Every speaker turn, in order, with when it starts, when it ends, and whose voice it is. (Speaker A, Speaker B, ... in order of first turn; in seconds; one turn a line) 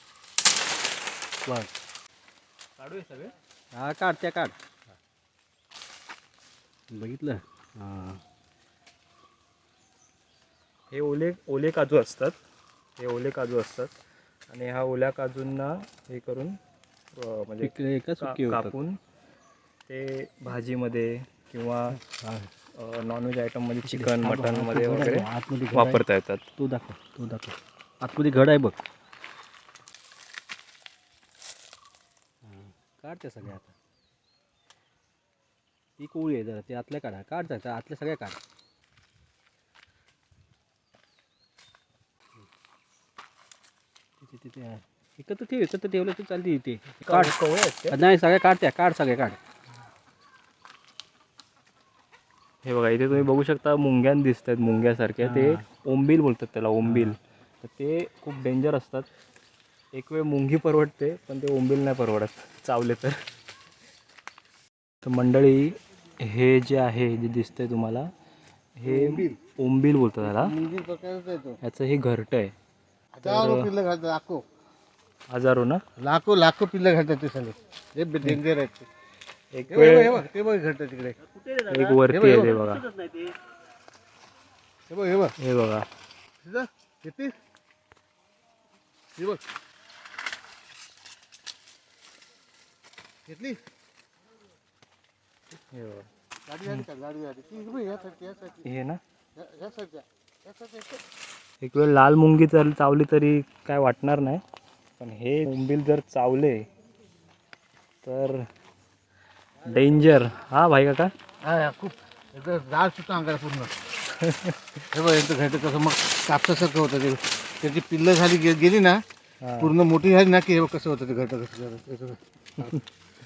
Speaker A: 1.4-1.7
Speaker B: 2.8-3.3
Speaker A: 3.7-4.5
Speaker A: 6.9-8.2
Speaker B: 10.9-12.4
Speaker B: 13.0-13.9
Speaker B: 14.5-16.6
Speaker B: 17.1-19.0
Speaker A: 17.6-18.8
Speaker B: 19.9-22.0
Speaker A: 22.0-22.5
Speaker B: 22.8-26.4
Speaker A: 23.8-26.0
Speaker A: 26.6-28.8
Speaker A: 32.4-33.7
Speaker A: 36.0-38.4
Speaker A: 44.2-47.3
Speaker B: 47.0-48.0
Speaker A: 47.9-49.4
Speaker B: 52.6-59.1
Speaker A: 55.2-55.6
Speaker A: 56.8-57.2
Speaker B: 59.9-63.2
Speaker B: 65.0-68.1
Speaker B: 68.8-70.5
Speaker C: 68.8-69.4
Speaker C: 70.2-71.6
Speaker B: 71.6-72.5
Speaker C: 73.1-74.4
Speaker B: 73.2-73.7
Speaker B: 75.3-75.8
Speaker C: 76.0-78.9
Speaker B: 79.5-80.2
Speaker C: 79.7-81.2
Speaker A: 81.2-83.4
Speaker B: 81.7-82.9
Speaker C: 82.1-82.6
Speaker C: 84.9-85.3
Speaker B: 85.4-85.9
Speaker C: 86.4-87.3
Speaker C: 89.2-89.4
Speaker C: 93.3-93.6
Speaker B: 95.7-96.1
Speaker C: 96.5-98.7
Speaker B: 98.6-99.0
Speaker C: 99.3-101.0
Speaker B: 101.6-104.4
Speaker B: 105.0-106.7
Speaker B: 108.0-108.5
Speaker B: 109.6-111.1
Speaker C: 111.4-113.8
Speaker B: 114.2-114.8
Speaker C: 114.9-119.0
Speaker B: 119.4-119.7
Speaker C: 119.6-122.8